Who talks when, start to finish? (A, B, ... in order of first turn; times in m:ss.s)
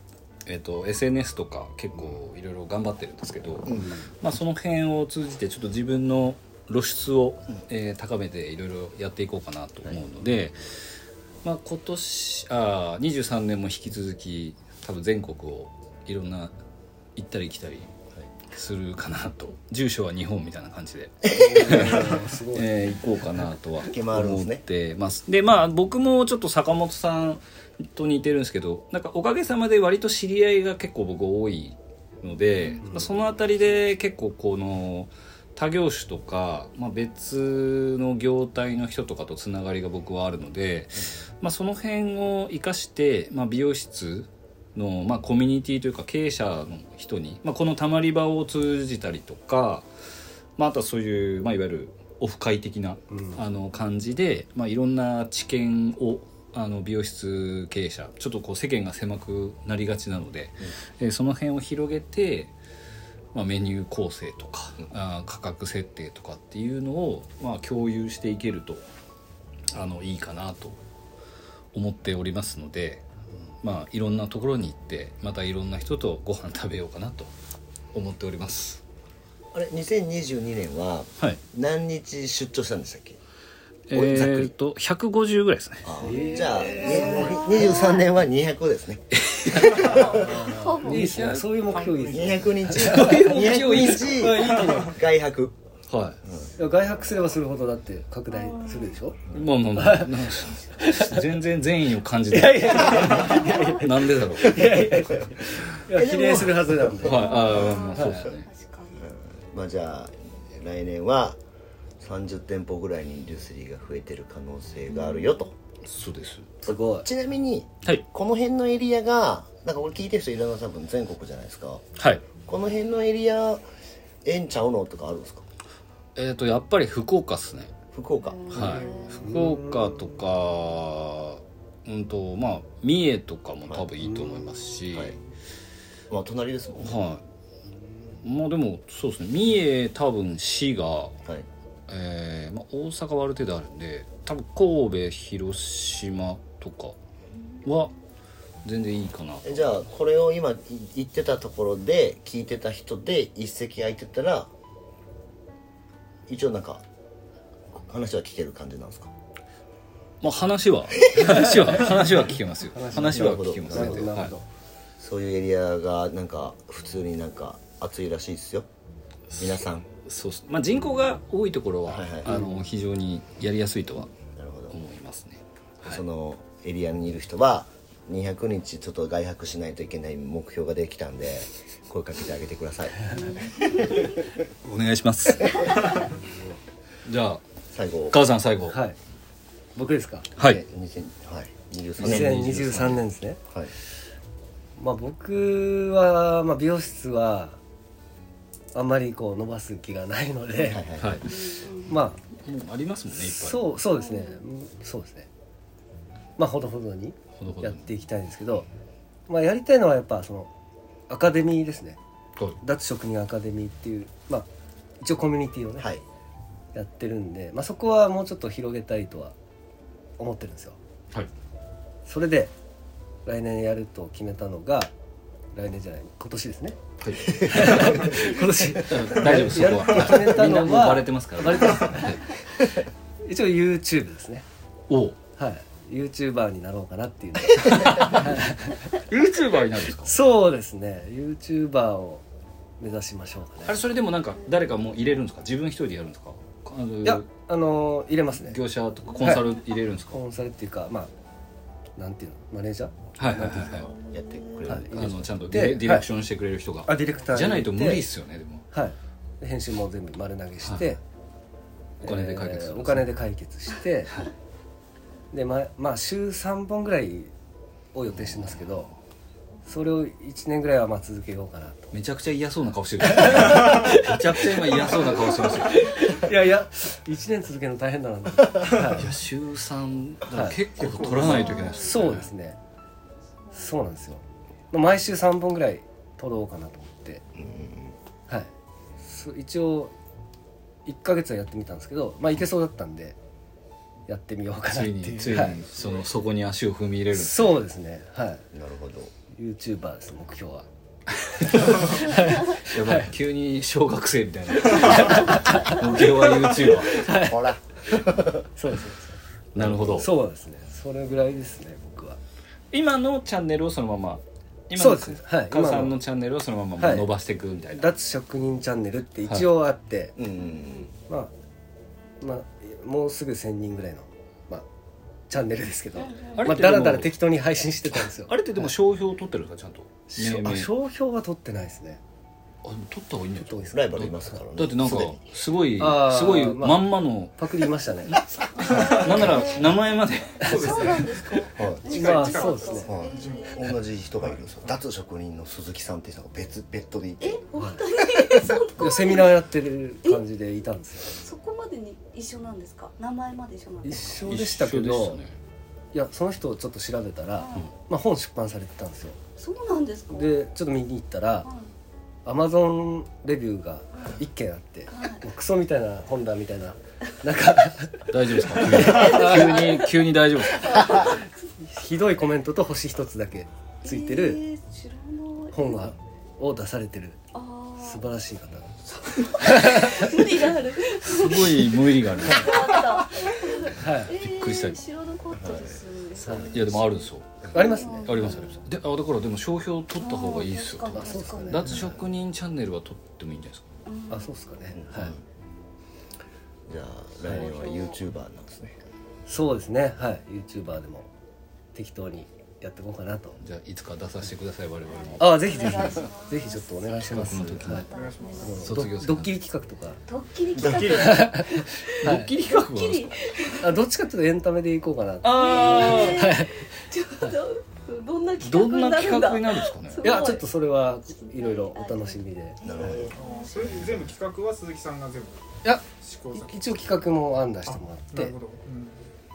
0:00.4-0:10.8 A
0:03.7-0:03.9 B
0:11.4-0:16.5 A
0:17.2-0:17.9 A
0:18.5-0:49.9 A
0:21.2-0:22.7 C
0:23.9-0:24.6 B
0:50.6-1:02.5 A
1:03.3-1:08.8 A
1:09.7-1:10.8 A
1:11.7-1:13.0 A
1:13.6-1:17.3 A
1:17.9-1:18.8 A
1:19.5-1:23.2 B
1:23.9-1:25.9 A
1:23.9-1:24.5 B
1:25.8-1:30.3 B
1:26.0-1:27.5 C
1:26.4-1:28.0 D
1:29.2-1:30.0 A
1:29.9-1:31.4 D
1:29.9-1:35.0 C
1:30.8-1:31.4 A
1:31.5-1:32.4 E
1:32.1-1:35.6 B
1:32.8-1:34.6 A
1:35.9-1:36.2 A
1:36.2-1:36.5 B
1:36.6-1:39.2 C
1:38.3-1:38.9 D
1:39.3-1:44.8 A
1:39.8-1:41.3 C
1:42.3-1:47.4 C
1:46.0-1:46.5 B
1:47.0-1:48.4 A
1:47.0-1:49.1 D
1:49.0-1:51.4 B
1:52.0-1:55.5 B
1:54.9-1:55.4 D
1:55.9-1:56.5 A
1:56.6-1:57.1 C
1:56.6-2:01.8 B
2:02.0-2:02.2 A
2:02.4-2:03.6 B
2:04.2-2:05.4 B
2:06.2-2:07.7 A
2:07.9-2:09.0 B
2:08.2-2:09.2 D
2:08.5-2:15.2 A
2:09.2-2:09.9 C
2:16.1-2:17.0 B
2:16.8-2:17.2 A
2:18.2-2:21.2 A
2:21.9-2:27.0 A
2:27.6-2:27.9 A
2:28.6-2:29.7 A
2:29.4-2:34.5 B
2:36.3-2:36.8 B
2:37.7-2:39.1 B
2:40.2-2:44.3 A
2:42.7-2:44.4 C
2:42.9-2:44.1 B
2:45.0-2:48.7 B
2:49.4-2:49.9 B
2:50.0-2:54.1 A
2:51.9-2:52.4 B
2:52.3-2:52.5 C
2:54.4-2:54.8 B
2:54.7-2:56.0 A
2:55.8-3:04.1 B
3:03.2-3:04.0 D
3:04.6-3:06.0 A
3:07.0-3:07.4 A
3:07.7-3:08.2 B
3:08.1-3:08.8 A
3:08.7-3:09.0 C
3:09.8-3:10.3 C
3:10.4-3:12.4 B
3:12.0-3:13.0 A
3:12.0-3:13.4 C
3:14.8-3:17.6 C
3:18.7-3:20.8 C
3:20.6-3:21.2 B
3:21.0-3:21.3 A
3:21.2-3:22.0 D
3:21.9-3:22.2 C
3:22.4-3:23.6 A
3:23.2-3:25.3 C
3:24.0-3:24.4 D
3:26.4-3:28.7 C
3:27.4-3:27.8 A
3:29.3-3:30.5 C
3:31.1-3:32.0 C
3:32.6-3:34.5 C
3:35.0-3:35.9 C
3:36.8-3:39.3 C
3:40.2-3:40.8 C
3:42.0-3:42.5 C
3:43.2-3:44.9 C
3:45.5-3:46.8 C
3:47.0-3:52.3 A
3:47.3-3:47.6 B
3:47.5-3:52.3 C
3:53.2-3:54.4 C
3:54.9-3:55.2 A
3:55.4-3:58.9 C
3:57.6-4:00.1 A
4:00.0-4:02.2 C
4:02.8-4:03.8 C
4:03.7-4:07.2 A
4:07.0-4:08.6 C
4:08.4-4:10.2 A
4:09.2-4:09.5 C
4:10.1-4:11.1 C
4:12.0-4:13.8 C
4:13.2-4:13.9 A
4:13.4-4:15.3 B
4:14.7-4:16.1 C
4:14.8-4:18.7 A
4:16.8-4:18.0 C
4:18.7-4:21.0 C
4:20.6-4:20.9 A
4:22.0-4:24.2 C
4:22.0-4:23.1 A
4:25.3-4:27.3 C
4:27.9-4:28.9 C
4:28.2-4:28.8 A
4:29.7-4:31.9 C
4:31.9-4:36.2 A
4:33.1-4:39.1 C
4:38.9-4:42.3 A
4:40.3-4:40.6 C
4:40.8-4:41.6 E
4:41.2-4:42.0 D
4:41.6-4:42.6 C
4:43.5-4:47.2 C
4:47.4-4:47.9 B
4:48.3-4:49.9 C
4:50.8-4:53.2 C
4:54.1-4:55.6 C
4:54.7-4:57.6 A
4:57.1-4:58.4 C
4:58.5-4:59.1 B
4:59.3-5:00.7 C
5:01.2-5:07.1 A
5:01.5-5:03.1 C
5:04.7-5:05.8 C
5:06.8-5:07.5 C
5:07.2-5:08.5 B
5:08.6-5:09.2 C
5:09.5-5:10.1 A
5:09.6-5:10.0 B
5:09.8-5:12.2 C
5:12.7-5:17.9 A
5:14.7-5:16.0 C
5:16.8-5:17.1 C
5:17.8-5:20.2 C
5:20.2-5:20.9 B
5:22.2-5:24.7 C
5:25.3-5:28.7 C
5:26.0-5:26.4 D
5:26.3-5:27.1 A
5:28.3-5:30.7 A
5:30.1-5:32.0 C
5:32.6-5:41.0 A
5:33.4-5:34.0 C
5:33.7-5:35.2 B
5:35.8-5:38.2 C
5:38.6-5:39.8 D
5:38.6-5:39.2 E
5:40.4-5:43.6 D
5:40.4-5:40.9 C
5:40.4-5:43.6 E
5:41.5-5:42.0 B
5:41.8-5:42.9 C
5:42.8-5:47.4 B
5:47.2-5:49.3 D
5:47.5-5:47.8 C
5:48.7-5:51.2 C
5:51.2-5:54.2 D
5:53.8-5:55.2 C
5:54.2-5:55.3 A
5:55.9-5:59.2 C
5:57.4-5:57.7 D
5:59.4-6:00.3 D
6:00.1-6:01.5 C
6:01.4-6:01.7 D
6:02.2-6:09.6 C
6:04.9-6:05.2 D
6:08.1-6:11.2 A
6:08.7-6:09.9 D
6:10.5-6:11.3 D
6:11.6-6:14.4 C
6:13.8-6:15.9 D
6:15.5-6:17.2 C
6:17.3-6:18.1 D
6:17.8-6:18.8 C
6:19.1-6:28.6 D
6:19.4-6:20.2 C
6:21.0-6:24.8 A
6:23.7-6:24.1 C
6:25.3-6:26.4 B
6:26.2-6:26.5 C
6:26.5-6:33.7 A
6:27.5-6:28.4 C
6:30.0-6:31.8 D
6:30.9-6:31.8 C
6:33.8-6:34.3 D
6:34.1-6:35.1 C
6:34.7-6:35.2 B
6:36.7-6:38.8 B
6:37.2-6:38.0 D
6:39.3-6:41.1 C
6:41.8-6:43.4 C
6:43.4-6:46.0 A
6:44.9-6:48.9 D
6:45.2-6:47.9 C
6:47.1-6:47.9 A
6:47.9-6:48.7 E
6:48.4-6:50.0 C
6:48.6-6:49.4 A
6:50.1-6:53.7 D
6:50.6-6:51.0 B
6:50.8-6:52.3 C
6:51.0-6:53.6 A
6:53.6-6:56.7 C
6:55.2-6:56.4 A
6:55.2-7:00.5 D
6:58.4-7:00.2 A
7:00.0-7:03.0 C
7:01.2-7:03.8 D
7:02.6-7:03.1 B
7:02.8-7:07.1 E
7:05.6-7:08.3 C
7:07.7-7:09.0 E